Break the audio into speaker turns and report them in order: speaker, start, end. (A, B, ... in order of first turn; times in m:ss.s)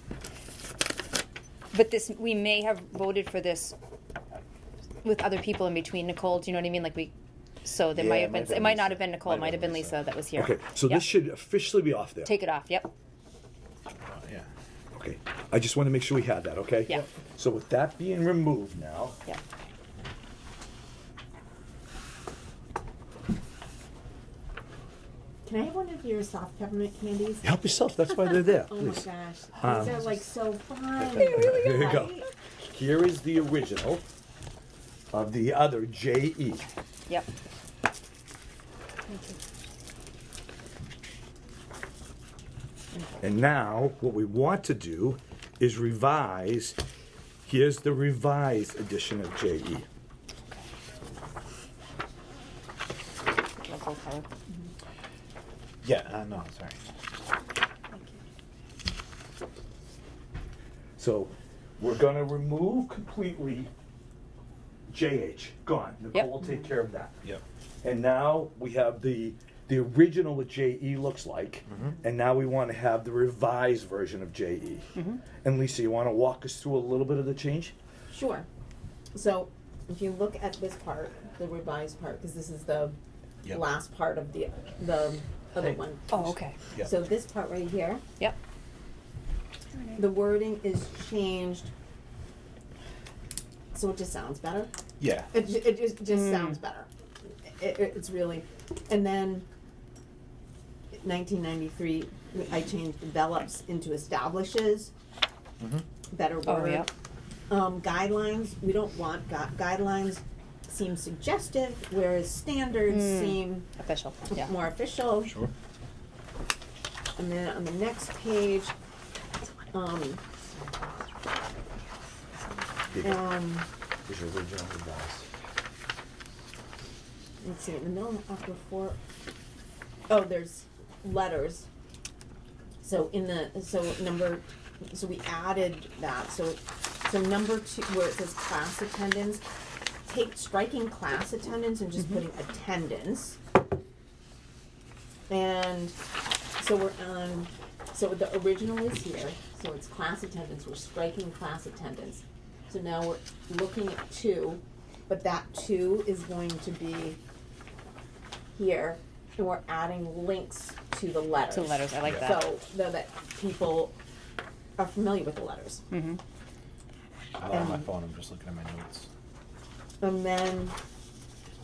0:01.7-0:03.8 A
0:05.0-0:07.1 A
0:07.6-0:11.0 A
0:08.0-0:09.9 B
0:08.0-0:09.4 C
0:10.3-0:12.3 C
0:12.2-0:12.9 A
0:14.0-0:14.5 B
0:15.0-0:19.2 C
0:25.4-0:32.3 D
0:27.4-0:29.0 C
0:29.6-0:30.2 C
0:31.1-0:32.2 A
0:31.2-0:34.0 C
0:35.1-0:36.6 C
0:39.1-0:39.4 D
0:43.2-0:46.8 C
0:47.4-0:49.8 C
0:53.5-0:54.3 A
0:55.8-0:56.8 B
0:57.9-0:58.2 A
1:01.0-1:03.7 C
1:04.9-1:07.1 C
1:07.8-1:17.7 C
1:18.1-1:18.5 D
1:19.1-1:28.0 D
1:26.1-1:26.6 A
1:29.7-1:30.0 A
1:29.9-1:31.7 D
1:33.7-1:34.7 D
1:35.0-1:35.3 B
1:35.3-1:36.9 D
1:36.2-1:36.6 A
1:37.4-1:39.4 D
1:40.9-1:44.9 D
1:46.1-1:46.9 D
1:46.4-1:46.9 A
1:47.5-1:53.7 D
1:52.9-1:54.5 A
1:54.3-1:55.4 D
1:55.2-1:55.5 B
1:57.2-1:58.7 D
1:59.4-2:01.0 D
2:02.9-2:03.7 D
2:03.0-2:03.3 C
2:04.1-2:05.2 C
2:07.4-2:09.0 D
2:10.1-2:11.7 D
2:12.8-2:19.4 D
2:20.0-2:23.4 D
2:25.3-2:26.0 D
2:26.6-2:37.2 D
2:38.5-2:43.9 D
2:41.5-2:42.5 A
2:42.0-2:42.3 B
2:44.8-2:45.8 D
2:45.9-2:46.2 A
2:47.4-2:49.1 B
2:47.5-2:47.8 D
2:50.0-2:50.7 D